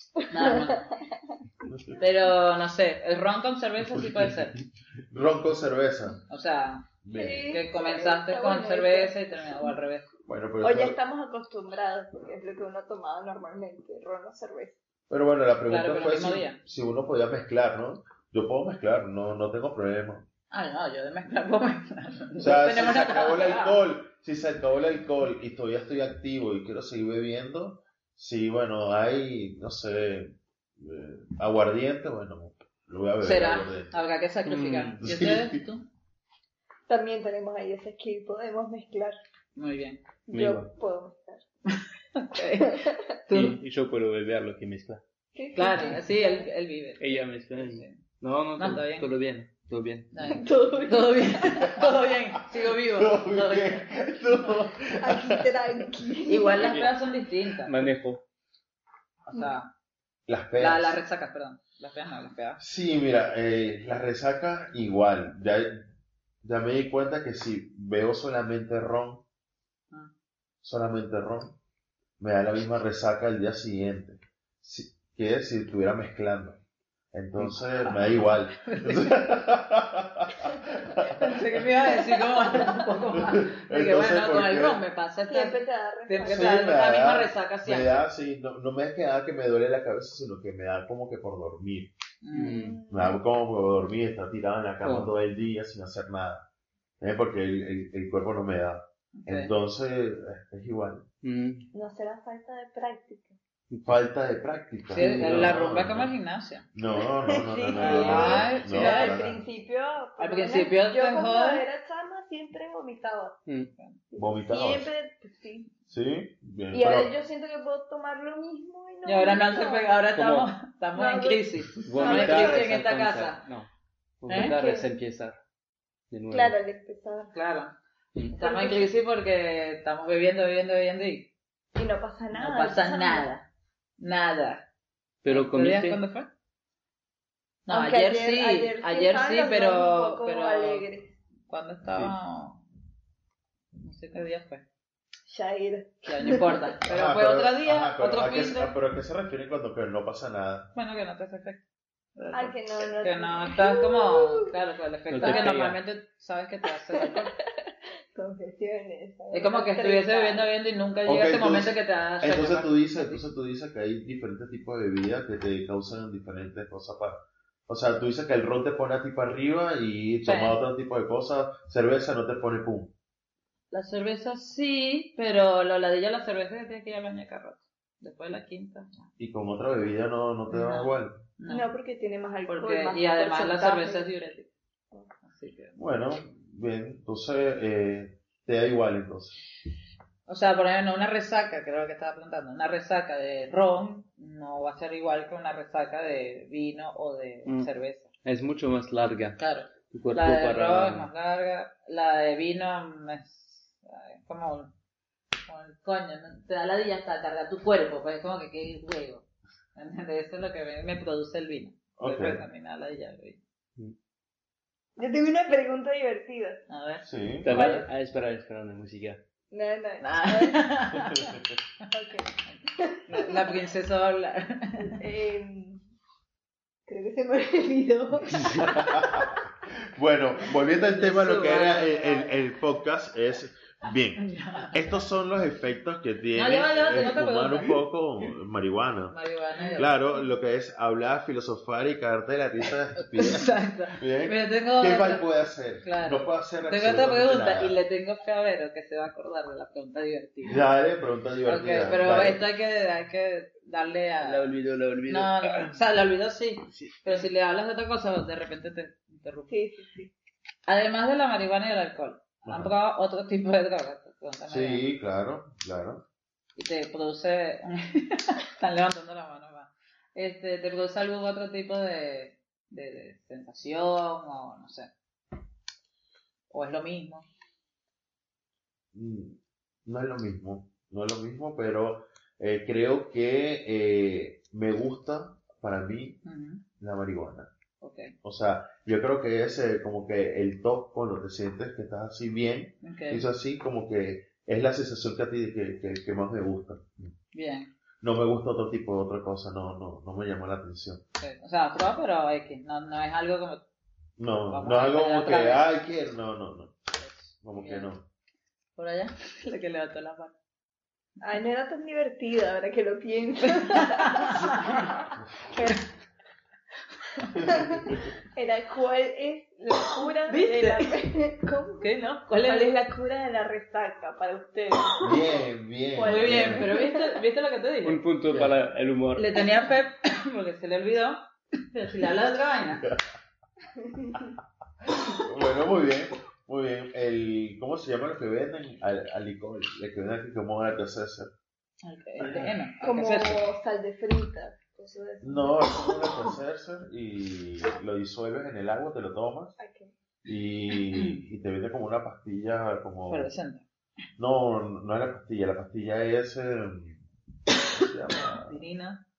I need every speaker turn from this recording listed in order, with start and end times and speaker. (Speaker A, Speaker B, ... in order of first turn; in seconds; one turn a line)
Speaker A: 0.2-1.0
Speaker B: 0.3-0.9
Speaker C: 1.6-2.0
Speaker B: 2.0-4.6
Speaker C: 5.1-6.2
Speaker B: 6.3-10.1
Speaker C: 7.0-7.6
Speaker A: 7.1-9.7
Speaker C: 10.2-11.0
Speaker A: 10.6-14.8
Speaker C: 15.1-20.3
Speaker B: 15.7-16.6
Speaker B: 20.5-23.8
Speaker C: 22.4-34.0
Speaker B: 33.2-35.8
Speaker D: 34.5-35.0
Speaker C: 35.0-35.6
Speaker A: 36.9-39.1
Speaker B: 39.5-40.0
Speaker A: 40.3-41.4
Speaker D: 40.3-40.7
Speaker B: 41.7-43.6
Speaker A: 42.6-43.0
Speaker D: 43.3-45.0
Speaker A: 45.3-46.4
Speaker B: 45.5-48.0
Speaker D: 47.0-50.4
Speaker B: 48.6-49.1
Speaker B: 50.1-53.9
Speaker A: 50.2-51.7
Speaker C: 52.5-55.5
Speaker A: 55.0-56.8
Speaker B: 56.3-57.9
Speaker D: 56.5-57.0
Speaker D: 57.6-58.2
Speaker B: 59.3-59.7
Speaker C: 60.3-61.0
Speaker B: 60.6-62.6
Speaker C: 62.6-65.9
Speaker C: 66.4-69.2
Speaker C: 70.6-71.5
Speaker C: 72.2-76.6
Speaker C: 77.1-81.7
Speaker B: 77.8-79.3
Speaker B: 81.2-85.6
Speaker C: 83.1-84.8
Speaker A: 85.3-86.7
Speaker B: 86.1-88.0
Speaker C: 86.2-91.9
Speaker B: 92.2-92.7
Speaker D: 92.3-92.8
Speaker A: 92.3-93.2
Speaker C: 92.9-96.4
Speaker D: 94.8-95.1
Speaker C: 97.0-101.0
Speaker B: 99.2-99.5
Speaker D: 101.2-101.7
Speaker A: 101.7-103.4
Speaker C: 103.8-106.1
Speaker B: 104.9-106.7
Speaker D: 105.0-105.6
Speaker C: 106.7-109.4
Speaker A: 106.9-113.4
Speaker B: 107.7-109.2
Speaker B: 110.2-111.6
Speaker A: 114.1-115.7
Speaker C: 114.2-114.9
Speaker C: 115.9-117.1
Speaker A: 116.7-120.0
Speaker B: 119.0-123.4
Speaker D: 120.1-120.5
Speaker A: 120.9-122.8
Speaker D: 121.8-123.7
Speaker D: 124.2-125.4
Speaker B: 124.3-124.5
Speaker A: 124.3-124.9
Speaker D: 126.1-126.5
Speaker A: 126.3-127.3
Speaker B: 127.3-127.7
Speaker B: 128.3-131.3
Speaker A: 128.4-128.9
Speaker A: 131.7-133.2
Speaker B: 132.3-133.5
Speaker B: 134.0-134.6
Speaker D: 135.2-136.0
Speaker B: 135.3-136.3
Speaker B: 137.7-140.8
Speaker A: 137.7-141.1
Speaker B: 141.5-142.6
Speaker B: 143.8-144.6
Speaker A: 145.3-146.7
Speaker B: 146.1-148.7
Speaker C: 146.8-150.7
Speaker B: 150.7-151.6
Speaker B: 152.2-157.3
Speaker A: 152.3-154.5
Speaker D: 155.1-155.8
Speaker A: 155.2-155.5
Speaker A: 156.9-157.3
Speaker A: 158.1-160.5
Speaker B: 159.3-163.2
Speaker C: 161.1-172.9
Speaker B: 170.2-170.6
Speaker B: 173.7-179.0
Speaker C: 179.2-181.2
Speaker B: 180.5-181.7
Speaker A: 181.5-184.1
Speaker B: 182.5-184.5
Speaker B: 185.2-185.8
Speaker C: 185.8-189.4
Speaker B: 190.3-198.1
Speaker D: 198.2-199.4
Speaker B: 199.4-204.7
Speaker D: 199.9-201.1
Speaker B: 205.5-213.4
Speaker C: 212.0-212.4
Speaker A: 215.0-216.6
Speaker B: 216.7-217.7
Speaker C: 217.0-217.8
Speaker D: 217.4-219.2
Speaker A: 219.5-220.6
Speaker B: 220.0-221.4
Speaker A: 221.9-223.3
Speaker B: 223.1-225.0
Speaker A: 224.8-225.8
Speaker A: 226.9-229.1
Speaker C: 228.6-239.2
Speaker B: 230.7-232.5
Speaker B: 234.2-234.9
Speaker B: 236.3-237.8
Speaker B: 239.1-240.0
Speaker C: 239.7-247.8
Speaker B: 242.9-245.2
Speaker B: 245.8-250.6
Speaker C: 250.4-252.4
Speaker B: 251.4-254.5
Speaker D: 254.2-255.8
Speaker B: 255.1-259.6
Speaker A: 259.5-260.1
Speaker B: 260.7-264.8
Speaker C: 262.4-262.7
Speaker C: 264.5-266.0
Speaker B: 266.6-274.9
Speaker B: 276.5-277.2
Speaker C: 278.9-286.2
Speaker B: 286.2-286.6
Speaker C: 286.8-287.5
Speaker B: 287.8-288.1
Speaker C: 288.2-297.1
Speaker B: 292.8-293.2
Speaker B: 297.3-297.7
Speaker C: 298.0-301.0
Speaker B: 301.2-303.6
Speaker C: 304.2-306.7
Speaker B: 304.5-305.7
Speaker B: 307.0-307.9
Speaker C: 307.4-308.0
Speaker B: 308.8-310.3
Speaker A: 311.2-315.7
Speaker B: 313.4-314.9
Speaker B: 315.5-315.8
Speaker A: 317.3-325.2
Speaker B: 320.3-321.0
Speaker B: 321.8-322.7
Speaker C: 325.0-326.7
Speaker A: 325.9-327.2
Speaker B: 326.0-328.0
Speaker D: 327.8-329.3
Speaker B: 329.1-331.2
Speaker B: 331.7-332.9
Speaker A: 333.8-334.3
Speaker C: 334.8-341.3
Speaker B: 341.8-343.5
Speaker A: 342.8-346.3
Speaker C: 345.2-349.6
Speaker A: 349.6-349.9
Speaker C: 350.2-353.3
Speaker B: 350.9-351.2
Speaker B: 353.1-353.6
Speaker C: 354.2-357.0
Speaker C: 357.6-358.6
Speaker B: 358.3-359.0